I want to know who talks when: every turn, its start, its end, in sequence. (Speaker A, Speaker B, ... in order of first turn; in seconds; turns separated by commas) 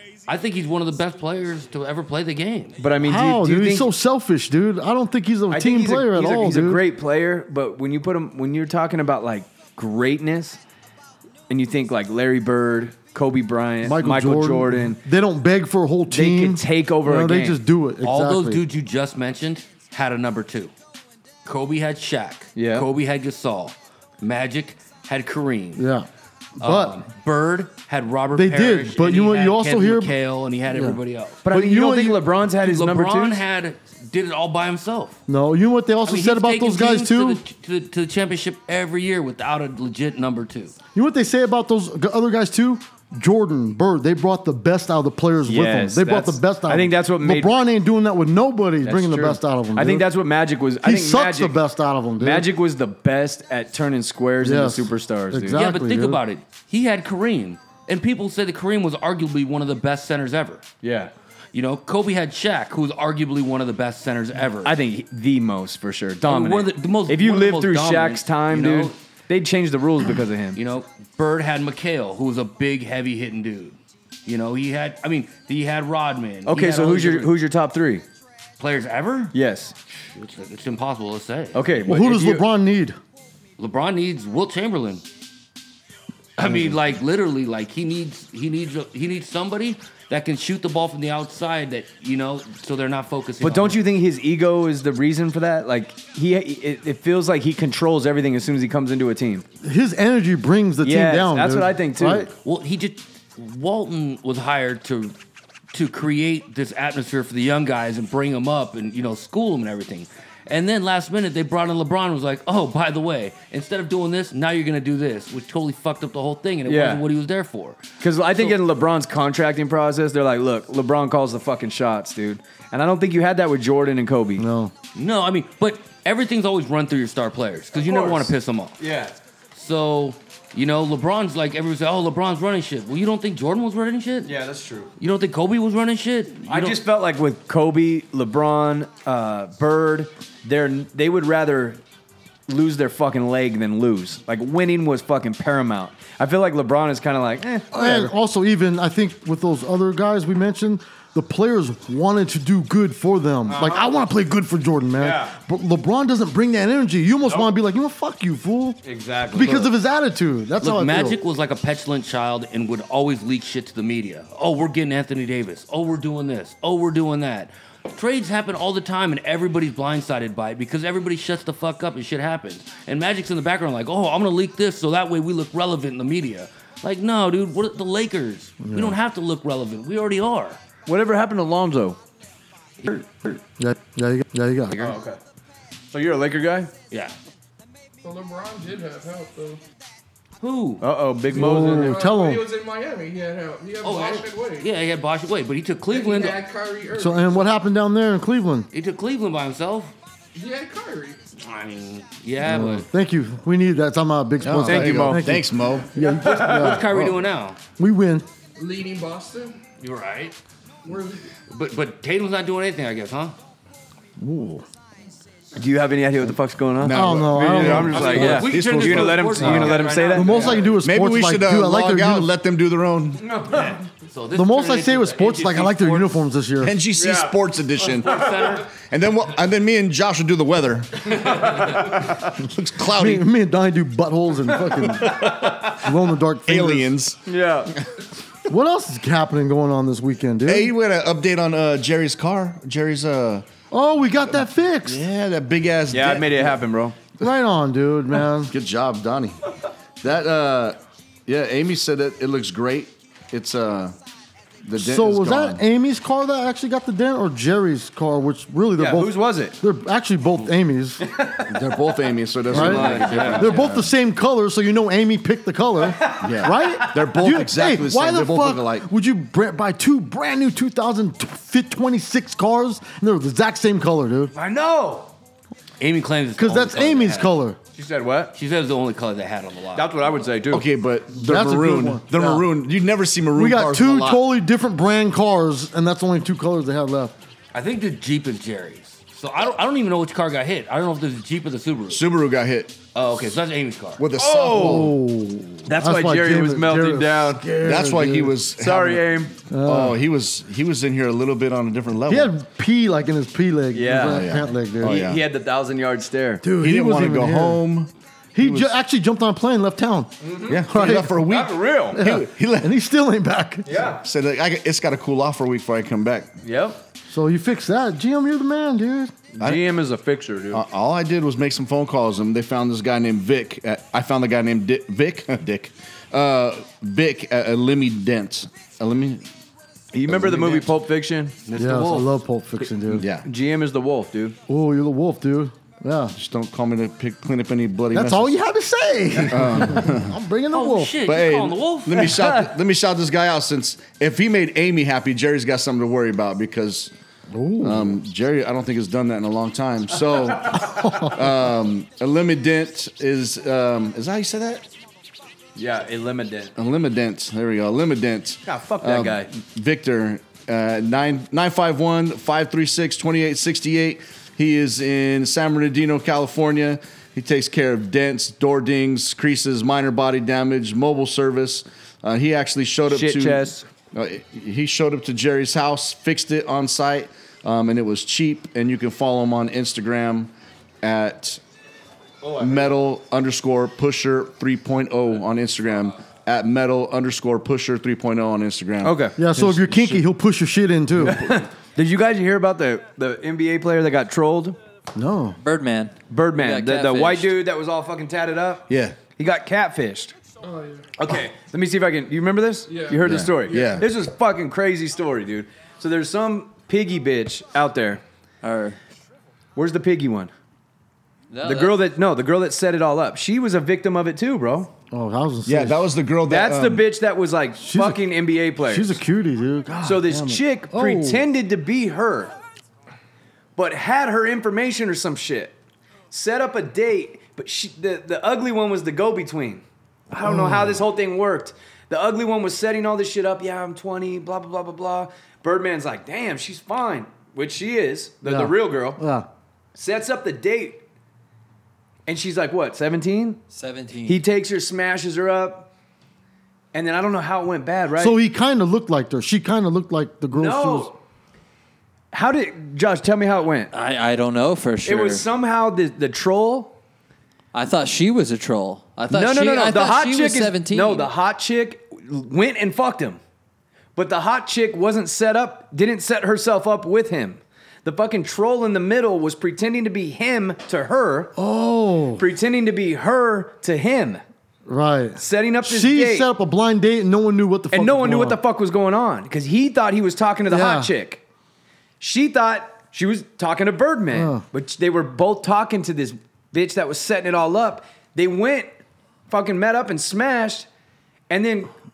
Speaker A: 0.3-2.8, Speaker B: 2.8-3.9, Speaker C: 3.0-6.8, Speaker B: 5.5-10.6, Speaker B: 11.5-15.0, Speaker C: 13.8-18.6, Speaker B: 16.1-17.6, Speaker A: 18.0-20.7, Speaker A: 21.4-25.9, Speaker B: 22.6-22.9, Speaker C: 25.8-26.1, Speaker C: 26.6-27.0, Speaker A: 26.6-31.4, Speaker C: 28.3-30.1, Speaker C: 30.7-32.3, Speaker B: 31.4-33.4, Speaker A: 32.5-35.2, Speaker C: 35.3-37.4, Speaker A: 36.0-40.7, Speaker C: 40.9-50.1, Speaker B: 45.4-47.5, Speaker B: 48.8-51.6, Speaker C: 50.8-52.5, Speaker B: 52.2-55.6, Speaker C: 54.4-56.2, Speaker A: 55.5-60.6, Speaker B: 60.8-61.1, Speaker A: 61.5-64.7, Speaker B: 64.6-70.6, Speaker A: 66.2-68.9, Speaker A: 70.5-77.3, Speaker B: 76.5-78.0, Speaker A: 78.6-79.3, Speaker B: 79.3-79.7, Speaker A: 80.1-81.9, Speaker B: 81.5-82.4, Speaker C: 81.8-83.0, Speaker A: 83.6-85.0, Speaker A: 86.4-93.8, Speaker B: 93.4-99.4, Speaker C: 99.6-102.3, Speaker B: 100.8-102.3, Speaker A: 102.4-105.1, Speaker A: 105.7-118.6, Speaker B: 116.6-117.0, Speaker B: 118.0-124.4, Speaker C: 124.4-124.7, Speaker A: 124.9-128.8, Speaker B: 127.8-129.1, Speaker A: 129.5-134.3, Speaker B: 134.2-134.9, Speaker A: 135.0-136.8, Speaker B: 136.5-141.8, Speaker B: 142.5-148.1, Speaker C: 147.7-158.8, Speaker B: 153.5-153.9, Speaker B: 155.0-155.3, Speaker B: 158.8-159.7, Speaker C: 159.3-161.2, Speaker A: 160.6-180.6, Speaker C: 178.6-179.0, Speaker B: 180.8-182.0, Speaker B: 182.9-183.3, Speaker C: 183.6-184.9, Speaker B: 184.8-185.2, Speaker B: 185.9-186.7, Speaker D: 188.0-189.6, Speaker A: 190.4-190.8, Speaker B: 190.8-192.0, Speaker C: 191.3-192.5, Speaker D: 191.4-194.7, Speaker A: 193.8-196.4, Speaker D: 195.8-197.6, Speaker C: 196.9-198.7, Speaker A: 198.7-199.9, Speaker D: 200.3-201.3, Speaker A: 201.4-202.8, Speaker C: 202.4-207.1, Speaker E: 204.4-205.9, Speaker B: 204.6-205.3, Speaker A: 206.1-207.6, Speaker C: 207.8-208.3, Speaker D: 208.5-209.6, Speaker A: 209.8-210.3, Speaker D: 210.8-211.3, Speaker A: 211.5-213.3, Speaker C: 214.2-214.7, Speaker B: 215.6-220.8, Speaker E: 216.8-219.8, Speaker C: 216.9-218.3, Speaker A: 217.9-220.7, Speaker C: 219.4-222.3, Speaker E: 220.8-223.4, Speaker B: 223.2-223.8, Speaker A: 224.1-226.1, Speaker C: 224.3-226.8, Speaker E: 226.6-233.2, Speaker B: 226.9-227.3, Speaker A: 228.0-228.7, Speaker C: 232.8-236.9, Speaker E: 235.0-235.8, Speaker E: 236.5-237.2, Speaker B: 237.2-237.7, Speaker C: 238.5-240.7, Speaker E: 240.4-243.4, Speaker C: 243.7-245.0, Speaker E: 244.8-246.6, Speaker B: 245.9-246.9, Speaker C: 247.2-248.5, Speaker E: 248.4-249.4, Speaker E: 250.0-253.9, Speaker E: 254.6-255.6, Speaker C: 254.8-261.0, Speaker B: 258.8-259.6, Speaker B: 261.0-261.5, Speaker E: 261.4-263.9, Speaker C: 262.5-274.3, Speaker A: 262.5-263.7, Speaker B: 262.6-263.4, Speaker B: 265.9-266.9, Speaker E: 266.2-268.9, Speaker B: 274.3-275.1, Speaker A: 275.8-277.3, Speaker C: 276.4-277.6, Speaker B: 277.8-278.3, Speaker A: 278.3-279.9, Speaker B: 279.7-280.6, Speaker E: 280.5-284.2, Speaker C: 281.1-282.5, Speaker C: 283.3-287.1, Speaker A: 287.5-292.0, Speaker E: 291.9-292.8, Speaker A: 292.9-294.0, Speaker E: 294.0-294.9, Speaker B: 294.1-294.9, Speaker C: 294.5-298.4, Speaker B: 295.6-297.4, Speaker E: 297.6-302.3, Speaker B: 298.6-299.4, Speaker C: 299.5-300.0, Speaker C: 302.1-305.0, Speaker B: 303.7-304.2, Speaker E: 304.0-305.2, Speaker B: 304.8-306.4, Speaker C: 306.4-307.6, Speaker E: 306.6-308.7, Speaker C: 308.3-311.2, Speaker B: 310.2-310.6, Speaker E: 310.5-312.7, Speaker B: 311.2-312.0, Speaker C: 311.9-313.8, Speaker B: 313.6-314.0, Speaker E: 314.0-316.3, Speaker B: 316.4-316.8, Speaker C: 317.1-319.1, Speaker B: 319.3-320.6, Speaker E: 320.5-329.2, Speaker B: 329.9-331.4, Speaker E: 330.1-330.7, Speaker A: 331.4-332.1, Speaker C: 331.5-333.1, Speaker E: 332.9-333.3, Speaker B: 333.2-334.4, Speaker C: 334.5-336.1, Speaker E: 336.1-338.4, Speaker C: 337.9-341.0, Speaker E: 339.2-340.1, Speaker A: 340.5-342.1, Speaker E: 341.0-346.9, Speaker B: 342.0-342.4, Speaker C: 347.3-348.0, Speaker E: 347.6-354.6, Speaker C: 350.6-351.3, Speaker B: 355.6-356.5, Speaker E: 356.6-380.3, Speaker B: 358.4-359.3, Speaker B: 372.9-373.6, Speaker E: 380.8-381.4, Speaker B: 382.2-382.6, Speaker E: 382.4-390.0, Speaker B: 388.8-389.2, Speaker C: 389.2-391.2, Speaker B: 391.0-394.6, Speaker C: 394.9-395.4, Speaker F: 395.4-397.3, Speaker B: 396.1-400.1, Speaker E: 398.7-399.0, Speaker D: 400.4-400.9, Speaker B: 401.0-408.0, Speaker D: 402.7-403.1, Speaker E: 403.0-403.9, Speaker F: 408.4-408.8, Speaker B: 409.6-410.3, Speaker F: 411.3-411.8, Speaker B: 411.4-414.7, Speaker C: 414.9-415.9, Speaker E: 415.4-416.9, Speaker B: 416.2-419.0, Speaker C: 417.6-421.2, Speaker B: 419.8-422.3, Speaker B: 423.6-425.5, Speaker B: 426.1-439.0, Speaker C: 430.2-430.8, Speaker C: 438.2-439.3, Speaker B: 439.7-440.8, Speaker B: 442.1-443.4, Speaker F: 443.5-444.2, Speaker B: 444.1-445.7, Speaker B: 446.7-448.2, Speaker C: 448.0-450.9, Speaker B: 450.3-450.9, Speaker B: 452.1-453.7, Speaker F: 453.7-455.2, Speaker B: 454.8-456.7, Speaker F: 457.5-461.1, Speaker B: 459.1-463.2, Speaker B: 463.9-471.3, Speaker C: 471.4-472.2, Speaker B: 472.2-474.2, Speaker C: 474.6-478.4, Speaker B: 475.2-476.3, Speaker B: 477.7-481.2, Speaker C: 480.5-480.9, Speaker B: 482.0-488.7, Speaker C: 484.1-484.4, Speaker B: 489.3-490.7, Speaker B: 491.3-491.7